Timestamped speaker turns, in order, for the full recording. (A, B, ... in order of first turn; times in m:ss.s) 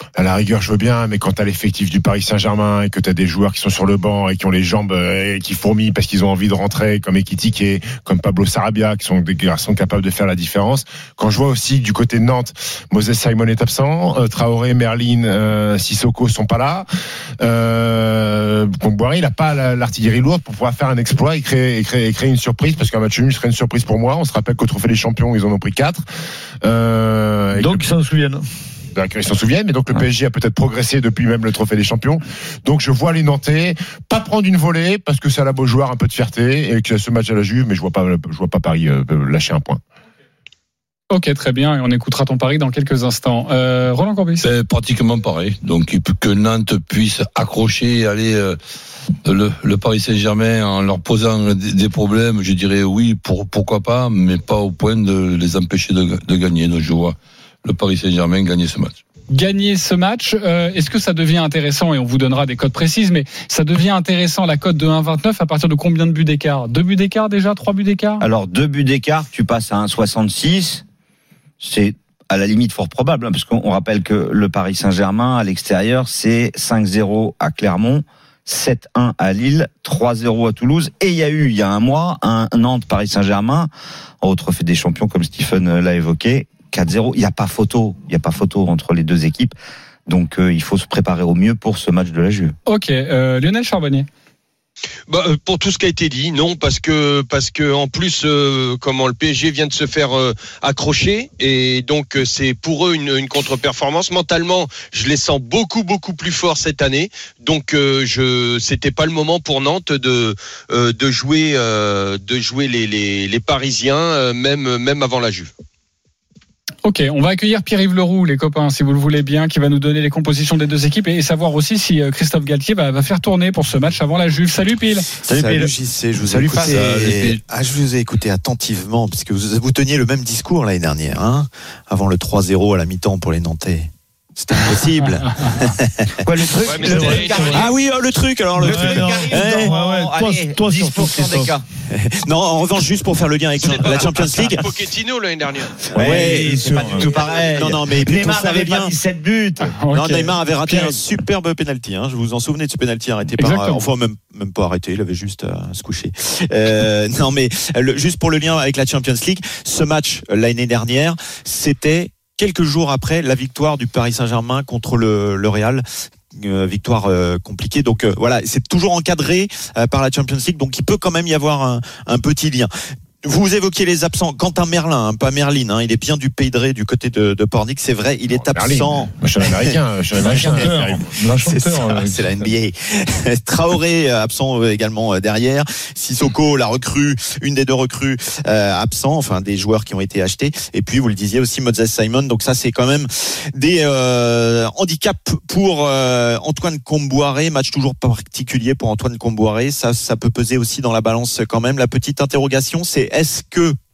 0:00.1-0:16.9 A
0:17.4-0:26.0 A
0:26.6-0:27.8 A
0:27.5-0:28.4 B
0:28.9-0:39.8 A
0:41.1-0:44.4 C
0:44.4-0:48.6 D
0:49.2-0:59.0 D
0:59.3-1:08.2 C
1:08.2-1:10.8 E
1:11.6-1:23.7 E
1:24.2-1:29.5 E
1:30.1-1:32.5 E
1:32.6-1:34.1 C
1:35.1-1:55.5 F
1:56.8-2:05.1 C
2:05.2-2:19.7 G
2:06.2-2:06.9 A
2:06.6-2:07.4 D
2:16.2-2:17.8 E
2:16.5-2:17.7 F
2:16.8-2:17.4 B
2:18.6-2:21.5 B
2:18.6-2:21.6 E
2:21.9-2:24.7 G
2:23.6-2:26.0 F
2:26.0-2:28.9 G
2:26.0-2:29.8 E
2:26.0-2:27.1 B
2:29.8-2:30.9 C
2:29.9-2:52.7 G
2:33.4-2:33.8 C
2:53.2-2:59.7 G
2:58.3-3:01.1 A
3:00.2-3:02.5 B
3:01.3-3:23.8 G